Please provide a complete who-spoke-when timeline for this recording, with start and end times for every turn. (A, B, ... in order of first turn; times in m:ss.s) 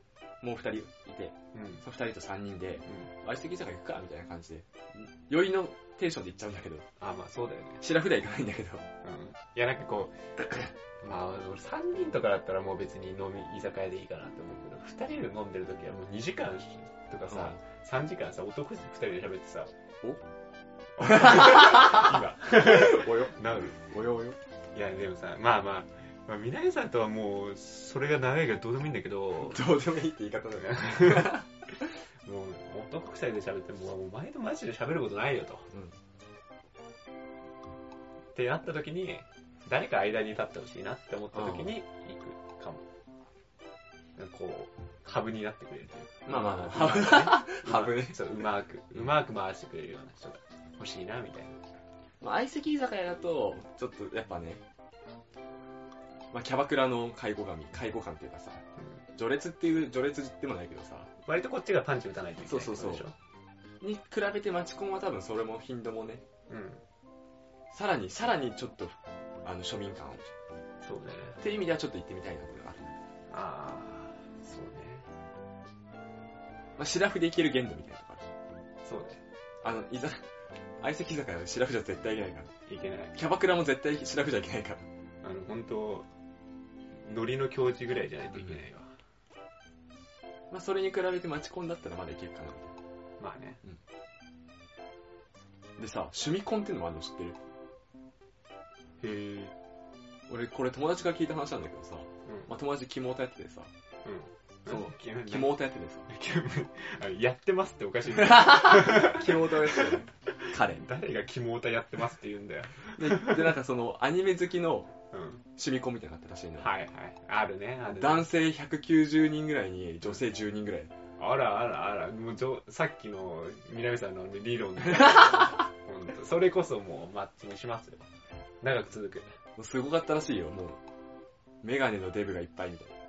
0:00.4-0:06.8 A
0:01.5-0:01.8 B
0:02.9-0:03.1 B
0:07.0-0:07.8 B
0:07.8-0:08.9 A
0:09.0-0:19.7 B
0:17.3-0:17.6 A
0:21.0-0:23.8 B
0:21.1-0:24.4 A
0:24.7-0:29.6 B
0:29.4-0:31.5 A
0:30.6-0:31.4 B
0:32.1-0:35.7 B
0:38.3-0:42.8 B
0:41.3-0:41.7 A
0:44.2-0:51.6 B
0:46.3-0:48.2 A
0:52.2-0:54.6 A
0:56.3-0:58.6 A
0:58.8-0:59.0 B
0:59.1-1:01.1 A
1:01.2-1:03.1 B
1:02.5-1:03.1 A
1:03.8-1:06.2 A
1:06.5-1:06.8 B
1:07.7-1:10.3 A
1:10.8-1:11.4 B
1:11.4-1:12.9 A
1:13.3-1:15.1 B
1:16.8-1:18.3 A
1:18.8-1:19.2 B
1:19.6-1:20.2 A
1:20.8-1:22.5 A
1:22.7-1:23.2 B
1:23.1-1:24.8 A
1:25.2-1:26.1 B
1:26.9-1:29.0 B
1:30.5-1:32.7 A
1:33.2-1:33.6 B
1:35.8-1:37.4 A
1:39.0-1:39.5 B
1:40.3-1:43.7 A
1:44.0-1:45.6 B
1:44.6-1:46.1 A
1:46.1-1:53.5 B
1:48.2-1:50.8 A
1:52.9-1:54.9 A
1:55.1-1:55.4 B
1:55.6-1:56.7 A
1:56.6-1:58.3 B
1:57.9-2:00.9 A
2:01.2-2:08.1 B
2:08.6-2:09.4 B
2:09.6-2:10.8 A
2:11.6-2:12.9 A